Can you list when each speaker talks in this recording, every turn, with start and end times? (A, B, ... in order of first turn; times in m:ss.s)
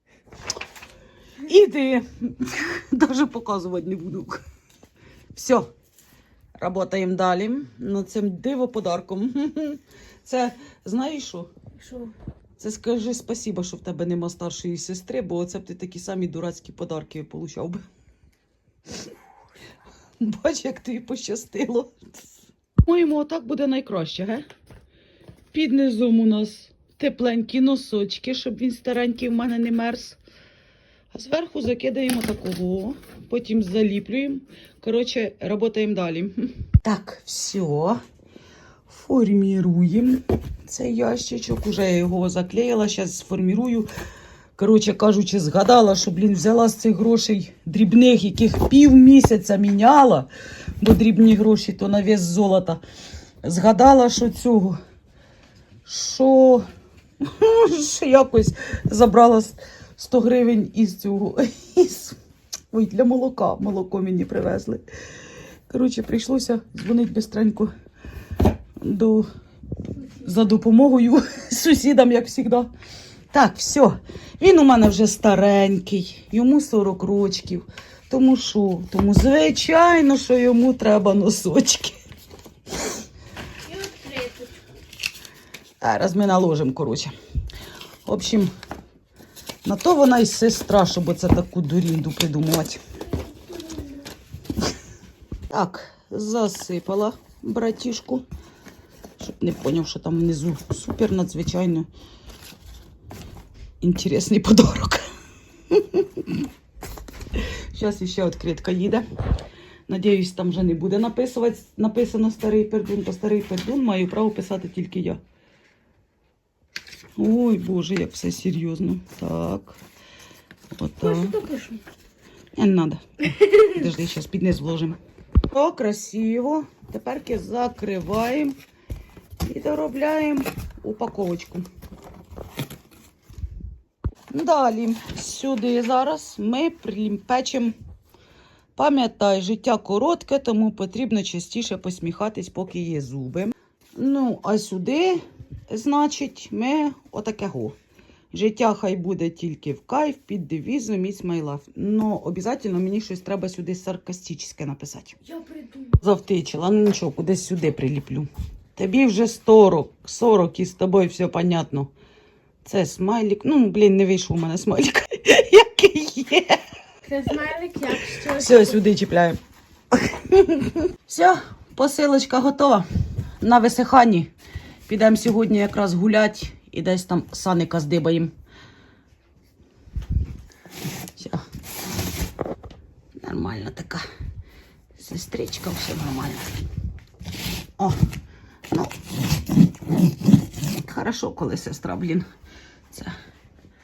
0:01.4-0:04.4 A
0:05.3-0:05.7 A
0:06.6-0:11.5 A
0:11.8-0:12.1 B
0:12.6-0:17.8 A
0:20.2-0:22.3 A
0:22.8-0:24.4 A
0:25.5-0:30.2 A
0:31.1-0:38.0 A
0:38.9-0:43.9 A
0:44.6-0:50.3 A
0:50.8-0:52.8 A
0:53.4-0:54.8 A
0:55.9-0:56.6 A
0:57.2-1:02.2 A
1:02.7-1:04.8 A
1:05.7-1:07.7 A
1:08.8-1:09.3 A
1:10.2-1:12.7 A
1:13.3-1:22.0 A
1:23.7-1:24.6 B
1:25.8-1:27.1 A
1:28.0-1:28.5 A
1:29.6-1:32.8 A
1:33.5-1:33.8 B
1:35.5-1:38.2 A
1:39.2-1:41.9 A
1:43.8-1:45.0 A
1:45.7-1:46.5 A
1:47.4-1:49.0 A
1:49.9-1:55.2 A
1:57.2-1:59.8 A
2:00.7-2:01.4 A
2:01.0-2:01.8 B
2:02.6-2:03.0 A
2:03.6-2:05.0 A
2:05.5-2:08.6 A
2:09.4-2:11.7 A
2:14.3-2:17.7 A
2:18.8-2:27.8 A
2:28.3-2:35.2 A
2:35.2-2:36.0 B
2:36.0-2:41.9 A
2:42.6-2:46.6 A
2:47.0-2:48.8 B
2:48.2-2:49.4 A
2:49.9-2:52.9 A
2:53.4-2:54.3 A
2:54.9-2:58.3 A
3:01.2-3:01.4 A
3:03.2-3:04.0 A
3:05.0-3:06.5 A
3:10.7-3:12.3 A